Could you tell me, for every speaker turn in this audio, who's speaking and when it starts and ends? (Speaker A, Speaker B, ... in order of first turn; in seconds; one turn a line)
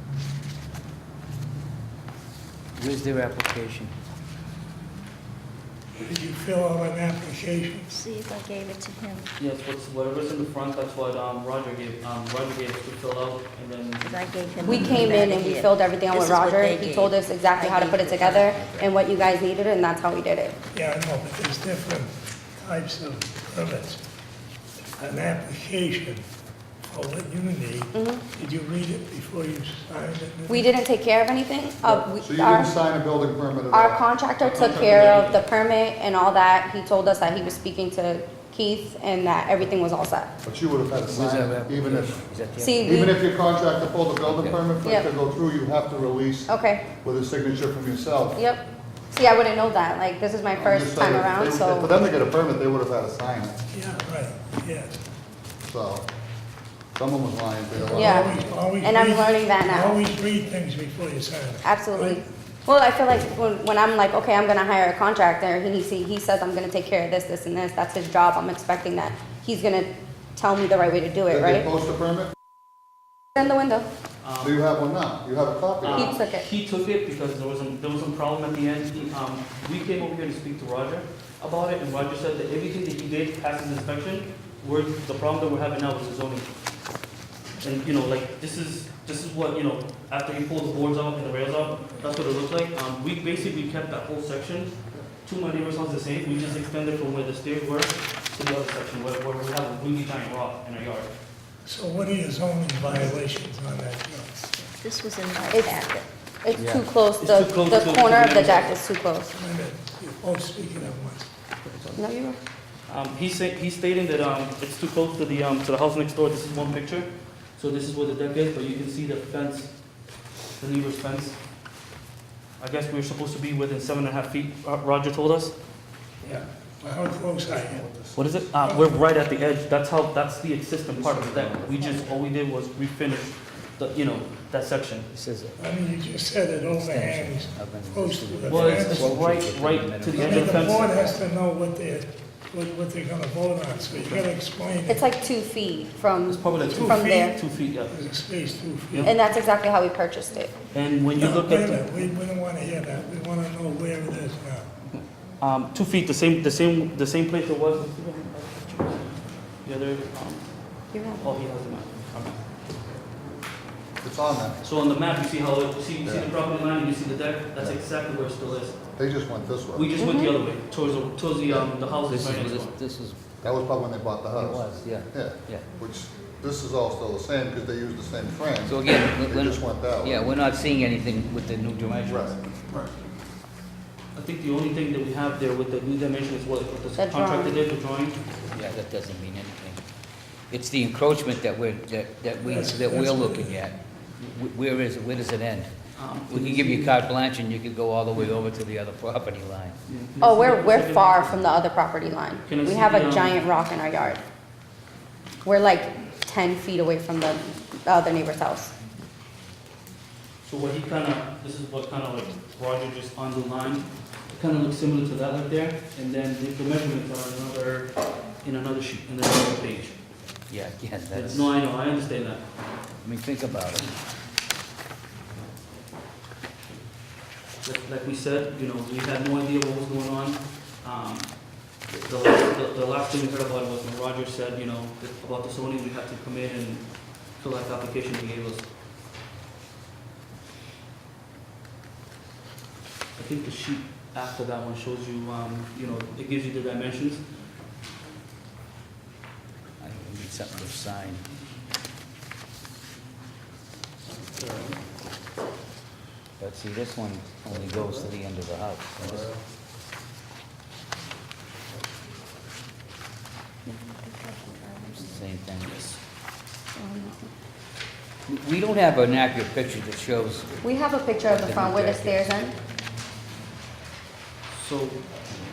Speaker A: 2.8-3.9
Speaker B: 6.0-7.9
Speaker C: 7.9-9.3
Speaker D: 9.4-14.2
Speaker C: 14.0-18.6
Speaker E: 14.6-20.5
Speaker A: 18.5-18.9
Speaker B: 20.7-24.0
Speaker B: 25.0-26.2
Speaker B: 26.9-30.7
Speaker E: 27.9-28.2
Speaker E: 30.5-32.7
Speaker F: 31.8-34.0
Speaker E: 33.7-40.3
Speaker D: 34.4-35.4
Speaker F: 40.4-42.2
Speaker A: 41.0-42.9
Speaker E: 42.6-43.2
Speaker F: 42.8-46.5
Speaker A: 44.2-44.6
Speaker E: 44.8-45.1
Speaker E: 46.5-46.8
Speaker F: 47.0-48.4
Speaker E: 48.4-51.9
Speaker F: 50.5-53.6
Speaker B: 53.7-55.0
Speaker F: 55.6-56.0
Speaker F: 57.0-58.5
Speaker B: 57.9-62.2
Speaker E: 57.9-60.0
Speaker E: 61.6-71.7
Speaker F: 71.3-72.3
Speaker E: 73.3-73.9
Speaker D: 74.2-74.6
Speaker F: 74.4-76.1
Speaker D: 75.8-86.5
Speaker E: 75.9-76.5
Speaker D: 87.6-101.1
Speaker B: 101.6-104.5
Speaker C: 104.5-106.1
Speaker E: 105.5-109.3
Speaker A: 106.5-106.8
Speaker D: 107.2-108.7
Speaker B: 109.3-111.3
Speaker D: 111.6-112.0
Speaker E: 112.0-112.4
Speaker D: 112.9-119.8
Speaker D: 120.6-121.4
Speaker D: 122.6-125.5
Speaker B: 126.2-127.8
Speaker F: 127.5-128.2
Speaker D: 128.1-135.1
Speaker A: 131.1-131.9
Speaker A: 135.1-135.6
Speaker B: 135.6-139.1
Speaker A: 136.7-141.1
Speaker D: 138.4-141.1
Speaker B: 140.1-145.1
Speaker D: 144.0-144.3
Speaker E: 144.8-147.4
Speaker D: 146.3-148.1
Speaker B: 146.7-147.4
Speaker B: 147.9-149.0
Speaker D: 148.9-149.1
Speaker E: 149.0-150.5
Speaker D: 150.7-151.8
Speaker B: 151.2-154.7
Speaker D: 154.9-162.5
Speaker E: 160.9-161.3
Speaker F: 164.0-164.6
Speaker D: 164.6-168.8
Speaker F: 166.0-166.3
Speaker F: 168.9-169.9
Speaker D: 169.7-172.8
Speaker E: 170.0-170.3
Speaker A: 172.1-173.6
Speaker F: 173.4-180.2
Speaker A: 174.3-175.7
Speaker A: 178.7-182.5
Speaker F: 182.1-182.3
Speaker D: 184.1-188.2
Speaker E: 187.0-187.6
Speaker A: 188.5-189.8
Speaker A: 190.5-195.7
Speaker B: 192.5-193.6
Speaker D: 195.9-197.0
Speaker A: 196.3-199.8
Speaker D: 199.8-201.5
Speaker E: 200.2-204.2
Speaker D: 202.4-203.4
Speaker E: 205.4-208.7
Speaker D: 210.4-220.0
Speaker A: 220.5-221.5
Speaker D: 221.1-222.4
Speaker A: 223.0-223.9
Speaker D: 227.6-238.7
Speaker D: 243.2-247.2
Speaker A: 249.8-251.2
Speaker D: 254.1-254.8
Speaker A: 256.4-259.3
Speaker D: 257.6-258.1
Speaker F: 259.1-259.4
Speaker C: 263.7-265.1
Speaker A: 265.0-265.9
Speaker E: 266.8-267.3
Speaker A: 268.3-270.6
Speaker E: 270.6-272.5
Speaker A: 271.2-272.3
Speaker D: 274.5-275.1